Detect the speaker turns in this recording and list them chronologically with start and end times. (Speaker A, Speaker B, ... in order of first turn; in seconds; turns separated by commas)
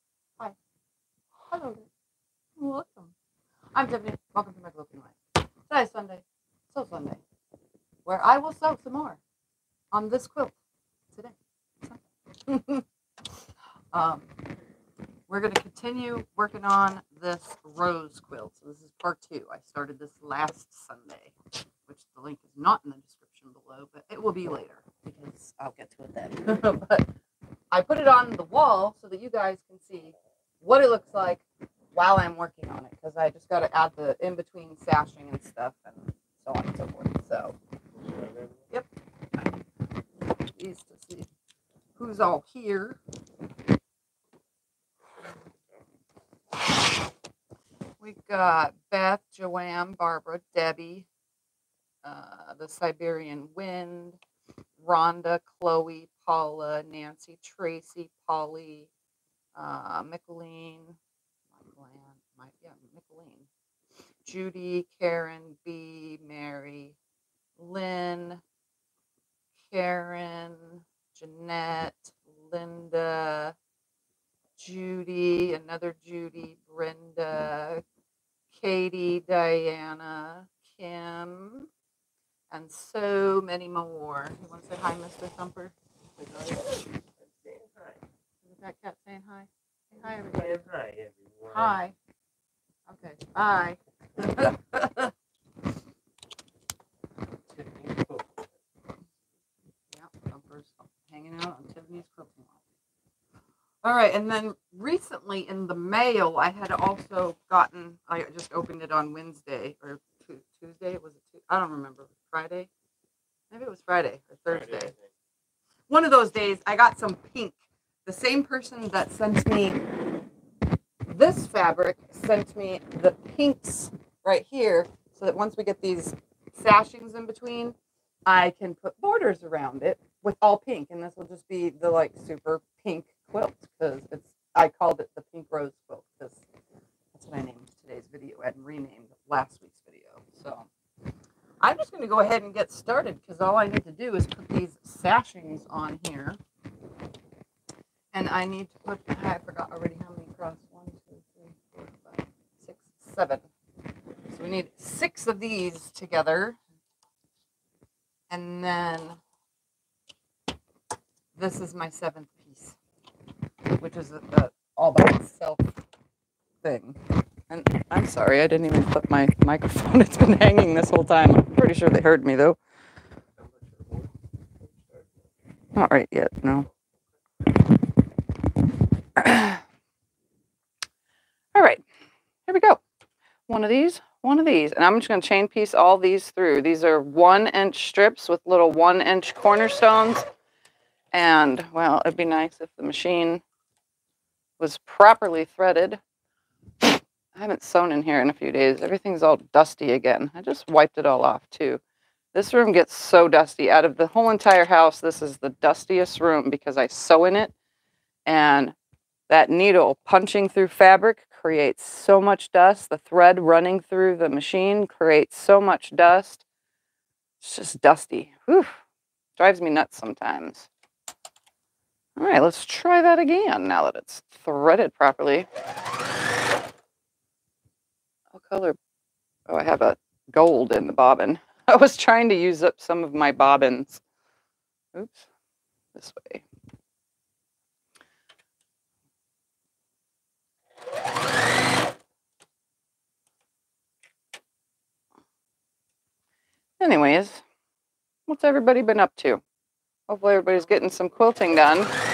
Speaker A: 1.4-1.9, Speaker A: 2.6-3.1, Speaker A: 3.7-7.2, Speaker A: 8.1-9.2, Speaker A: 9.9-10.6, Speaker A: 11.2-12.8, Speaker A: 13.9-14.3, Speaker A: 15.3-21.4, Speaker A: 21.9-27.1, Speaker A: 27.7-37.5, Speaker B: 38.0-38.6, Speaker A: 40.5-41.3, Speaker A: 42.0-43.0, Speaker A: 48.0-51.1, Speaker A: 52.0-54.2, Speaker A: 54.8-58.9, Speaker A: 59.6-61.0, Speaker A: 61.6-63.5, Speaker A: 64.2-67.0, Speaker A: 67.6-68.4, Speaker A: 69.7-73.5, Speaker A: 74.6-77.8, Speaker A: 78.5-81.7, Speaker A: 82.5-85.8, Speaker B: 86.2-88.0, Speaker A: 88.5-90.6, Speaker B: 90.3-91.8, Speaker A: 91.5-91.9, Speaker A: 92.9-95.1, Speaker B: 97.5-98.5, Speaker A: 100.0-102.6, Speaker A: 103.8-112.7, Speaker A: 113.5-114.9, Speaker B: 114.5-115.1, Speaker A: 115.9-119.8, Speaker A: 121.1-136.4, Speaker A: 137.1-140.7, Speaker A: 141.6-146.4, Speaker A: 148.1-153.5, Speaker A: 154.3-156.6, Speaker A: 158.3-159.2, Speaker A: 161.4-162.8, Speaker A: 163.7-165.7, Speaker A: 166.6-167.0, Speaker A: 167.5-172.6, Speaker B: 173.4-175.2, Speaker A: 175.8-176.7, Speaker A: 179.2-179.6, Speaker A: 181.6-181.8, Speaker A: 182.5-182.8, Speaker A: 183.5-190.2, Speaker A: 191.1-193.4, Speaker A: 194.6-196.0, Speaker A: 196.8-201.8, Speaker A: 202.3-207.5, Speaker A: 208.3-208.8, Speaker A: 209.3-216.4, Speaker A: 217.4-218.7, Speaker A: 219.4-220.7, Speaker A: 222.2-225.5, Speaker A: 228.3-228.8, Speaker A: 229.5-234.0, Speaker A: 234.9-235.3, Speaker A: 235.9-236.4, Speaker A: 246.8-247.4, Speaker A: 248.3-249.4, Speaker A: 250.1-251.9